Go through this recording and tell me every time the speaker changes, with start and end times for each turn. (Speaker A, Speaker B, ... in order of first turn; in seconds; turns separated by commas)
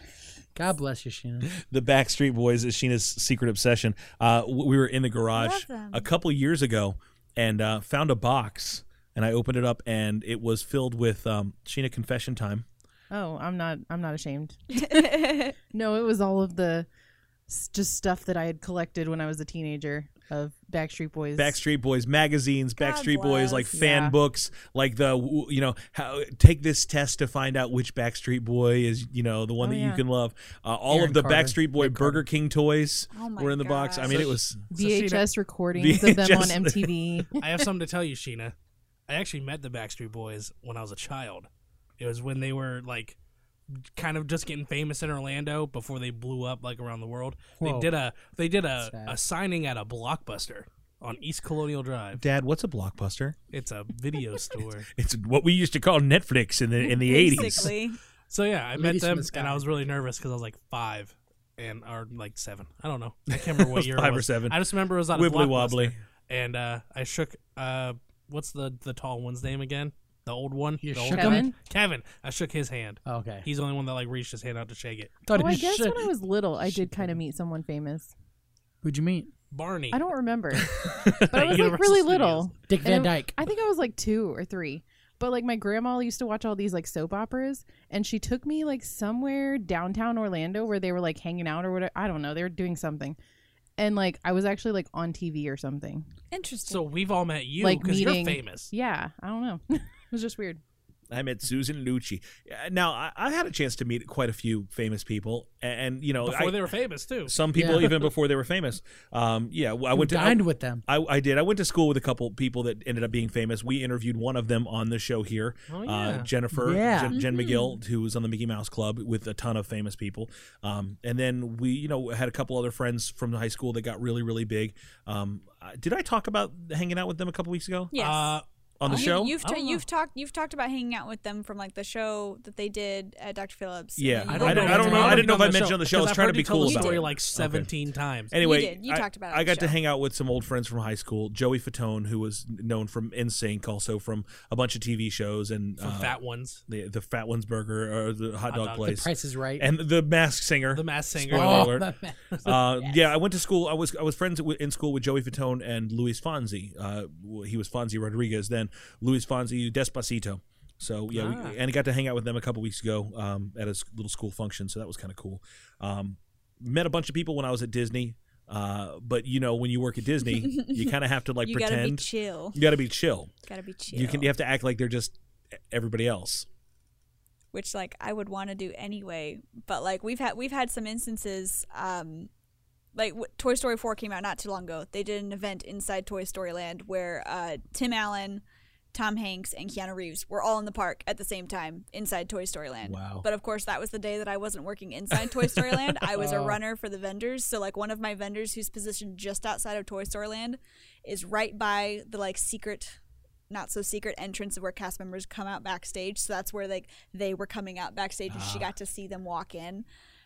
Speaker A: 0.5-1.5, Speaker B: 1.6-12.6, Speaker C: 5.3-6.1, Speaker D: 13.1-16.9, Speaker C: 14.7-15.6, Speaker D: 17.5-21.6, Speaker B: 21.3-34.6, Speaker C: 22.8-23.7, Speaker D: 23.7-24.1, Speaker D: 29.6-30.0, Speaker A: 30.9-32.2, Speaker C: 33.1-34.4, Speaker E: 34.1-35.3, Speaker D: 34.7-37.4, Speaker B: 35.8-36.9, Speaker E: 37.4-38.5, Speaker E: 39.1-41.5, Speaker E: 42.0-43.1, Speaker E: 43.9-52.2, Speaker A: 47.6-47.9, Speaker A: 48.8-49.2, Speaker B: 52.1-53.4, Speaker E: 53.5-54.9, Speaker B: 55.0-57.7, Speaker C: 56.8-58.0, Speaker E: 58.3-75.2, Speaker A: 58.7-59.6, Speaker B: 63.4-64.6, Speaker B: 65.1-66.0, Speaker A: 70.8-71.5, Speaker D: 71.1-71.5, Speaker A: 73.0-73.5, Speaker A: 75.2-77.2, Speaker D: 75.3-78.1, Speaker A: 78.8-79.3, Speaker E: 79.5-80.0, Speaker D: 79.9-93.2, Speaker B: 80.8-81.3, Speaker E: 81.3-82.5, Speaker A: 82.7-83.3, Speaker D: 93.8-96.1, Speaker C: 96.3-96.9, Speaker E: 96.7-98.7, Speaker D: 97.6-100.6, Speaker B: 101.1-106.6, Speaker E: 106.2-108.0, Speaker B: 107.2-127.9, Speaker A: 107.5-107.9, Speaker A: 109.9-110.8, Speaker E: 115.7-116.3, Speaker A: 116.5-117.2, Speaker C: 117.1-117.8, Speaker C: 127.9-135.3, Speaker E: 127.9-129.8, Speaker B: 128.8-129.3, Speaker B: 134.0-137.7, Speaker E: 134.3-138.3, Speaker A: 134.7-135.2, Speaker C: 136.6-137.1, Speaker B: 138.3-151.9, Speaker C: 138.4-139.8, Speaker E: 145.8-146.6, Speaker E: 148.5-149.0, Speaker A: 148.8-149.7, Speaker E: 150.7-151.8, Speaker A: 151.3-152.6, Speaker B: 152.4-173.3, Speaker E: 161.1-161.6, Speaker C: 170.2-172.6, Speaker C: 173.4-174.3, Speaker B: 173.9-175.2, Speaker B: 175.7-176.4, Speaker C: 177.5-182.3, Speaker C: 182.9-203.0, Speaker B: 192.8-193.2, Speaker A: 196.2-196.6, Speaker C: 203.5-209.8, Speaker B: 208.3-208.7